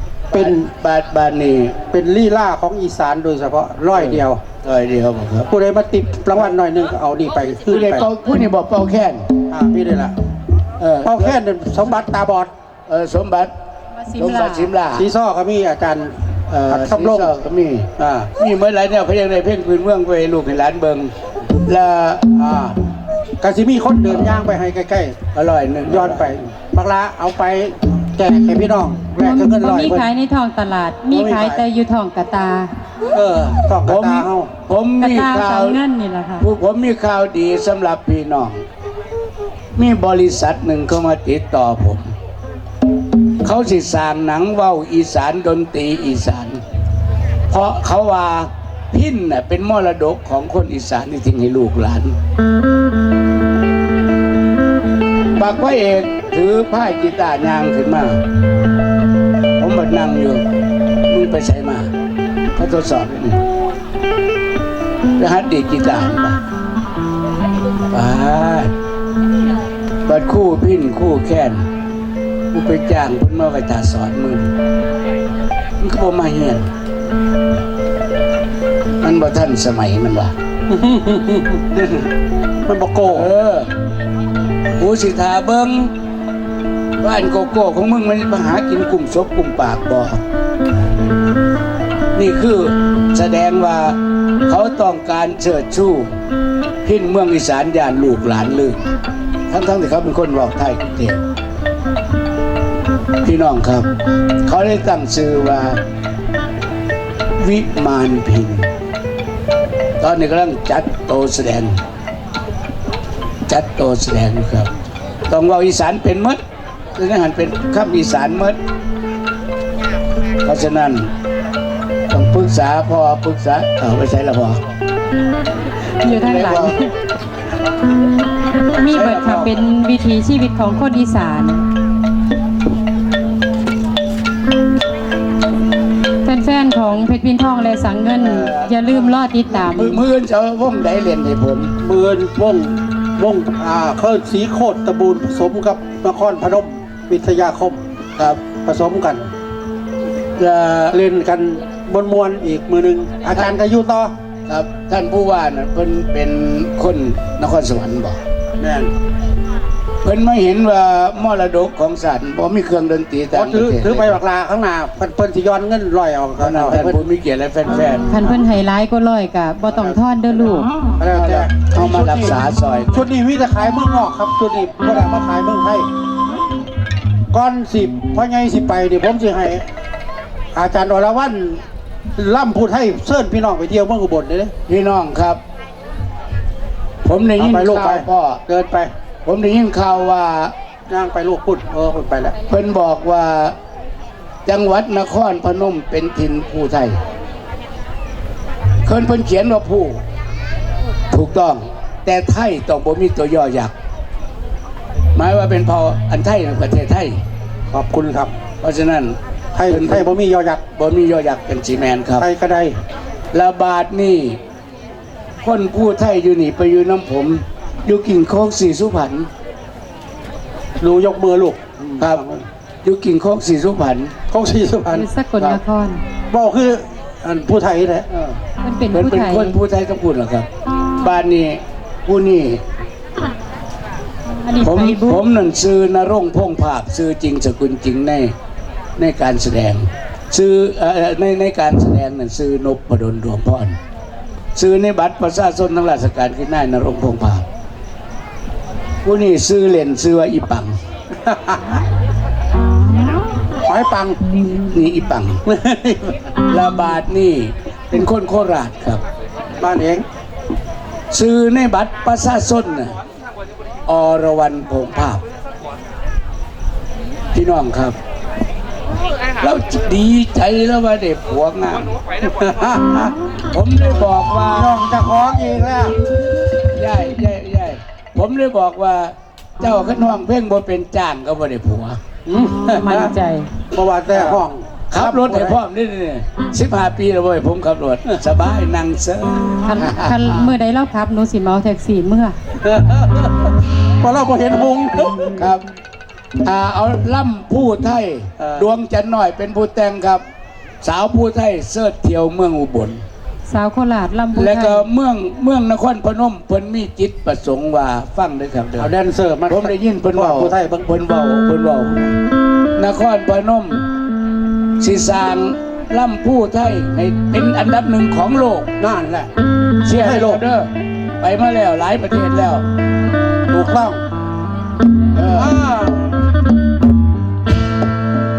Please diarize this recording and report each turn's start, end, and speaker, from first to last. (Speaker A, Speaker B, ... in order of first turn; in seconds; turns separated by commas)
Speaker A: 0.3-0.7, Speaker B: 0.3-1.8, Speaker A: 1.9-4.4, Speaker B: 4.0-5.5, Speaker A: 5.5-8.1, Speaker B: 7.7-9.3, Speaker A: 9.5-10.2, Speaker B: 10.8-11.4, Speaker A: 11.0-12.5, Speaker B: 12.9-13.5, Speaker C: 13.9-14.7, Speaker B: 14.2-15.1, Speaker A: 14.9-17.3, Speaker B: 16.5-22.2, Speaker A: 18.0-18.3, Speaker A: 22.4-22.8, Speaker A: 23.4-25.2, Speaker B: 25.3-26.4, Speaker A: 25.9-30.1, Speaker C: 29.2-32.7, Speaker A: 31.1-31.6, Speaker A: 33.1-34.5, Speaker B: 33.8-35.8, Speaker C: 35.0-36.5, Speaker B: 36.4-38.6, Speaker B: 39.8-42.1, Speaker B: 43.4-46.6, Speaker B: 47.5-52.1, Speaker B: 55.4-58.2, Speaker B: 59.6-60.4, Speaker B: 61.1-61.9, Speaker B: 62.5-63.4, Speaker B: 65.2-66.4, Speaker B: 67.9-68.7, Speaker B: 70.0-71.7, Speaker B: 72.5-74.5, Speaker B: 75.8-76.7, Speaker B: 79.0-80.3, Speaker A: 80.7-81.8, Speaker A: 82.7-83.3, Speaker B: 83.0-83.7, Speaker B: 84.8-85.9, Speaker B: 87.0-90.2, Speaker B: 92.1-96.1, Speaker B: 96.8-98.8, Speaker B: 99.5-101.2, Speaker B: 103.2-103.9, Speaker B: 104.4-105.8, Speaker B: 107.4-108.7, Speaker B: 110.0-111.8, Speaker B: 113.5-114.7, Speaker B: 115.3-116.4, Speaker B: 117.0-118.6, Speaker B: 120.4-121.1, Speaker B: 122.1-124.6, Speaker C: 126.0-126.9, Speaker B: 126.2-126.8, Speaker C: 128.7-131.6, Speaker B: 128.9-129.6, Speaker C: 136.3-140.0, Speaker B: 138.2-141.7, Speaker A: 141.8-147.8, Speaker B: 148.2-148.4, Speaker A: 148.6-149.3, Speaker B: 150.4-151.0, Speaker A: 150.9-154.1, Speaker B: 154.5-158.2, Speaker A: 158.6-158.9, Speaker B: 160.0-164.2, Speaker A: 163.3-167.0, Speaker B: 166.4-168.1, Speaker C: 168.1-170.7, Speaker A: 169.7-172.4, Speaker B: 171.1-173.1, Speaker A: 172.9-175.9, Speaker A: 177.3-179.7, Speaker A: 180.5-181.6, Speaker A: 182.2-184.5, Speaker B: 184.7-185.4, Speaker B: 187.0-188.4, Speaker A: 187.4-188.9, Speaker B: 189.2-190.5, Speaker A: 190.9-192.4, Speaker B: 192.5-193.6, Speaker B: 194.5-197.0, Speaker B: 198.8-200.0, Speaker B: 201.1-203.7, Speaker B: 205.2-207.2, Speaker A: 207.7-208.3, Speaker B: 208.6-210.1, Speaker A: 209.6-210.6, Speaker B: 210.8-212.3, Speaker A: 212.2-212.8, Speaker B: 213.3-214.4, Speaker B: 215.4-219.3, Speaker A: 220.8-222.4, Speaker B: 222.8-224.1, Speaker A: 224.3-225.1, Speaker C: 224.9-226.0, Speaker A: 226.3-228.1, Speaker B: 228.1-228.4, Speaker C: 228.6-229.6, Speaker B: 228.9-232.6, Speaker C: 234.4-235.2, Speaker B: 234.6-238.3, Speaker B: 239.0-243.8, Speaker B: 244.6-247.5, Speaker B: 249.0-250.7, Speaker A: 251.2-251.8, Speaker A: 253.6-254.2, Speaker B: 254.7-255.4, Speaker A: 255.4-256.2, Speaker B: 256.5-259.0, Speaker A: 259.6-260.1, Speaker B: 261.1-262.9, Speaker B: 263.9-265.2, Speaker B: 267.3-267.9, Speaker B: 269.4-271.9, Speaker A: 272.2-273.1, Speaker B: 273.5-274.8, Speaker A: 274.5-276.0, Speaker B: 276.6-282.0, Speaker A: 282.2-283.1, Speaker C: 282.7-283.5, Speaker A: 283.7-285.6, Speaker B: 284.1-290.5, Speaker C: 289.6-292.4, Speaker A: 292.6-295.4, Speaker B: 295.4-295.6, Speaker B: 296.4-300.2, Speaker A: 298.4-298.7, Speaker B: 300.8-303.0, Speaker C: 303.5-304.9, Speaker B: 304.4-308.9, Speaker A: 308.8-310.9, Speaker B: 309.5-312.0, Speaker B: 312.8-313.9, Speaker B: 314.8-318.7, Speaker A: 318.8-319.3, Speaker B: 319.8-322.6, Speaker A: 320.0-320.4, Speaker A: 323.5-324.0, Speaker B: 325.1-325.5, Speaker A: 325.3-326.2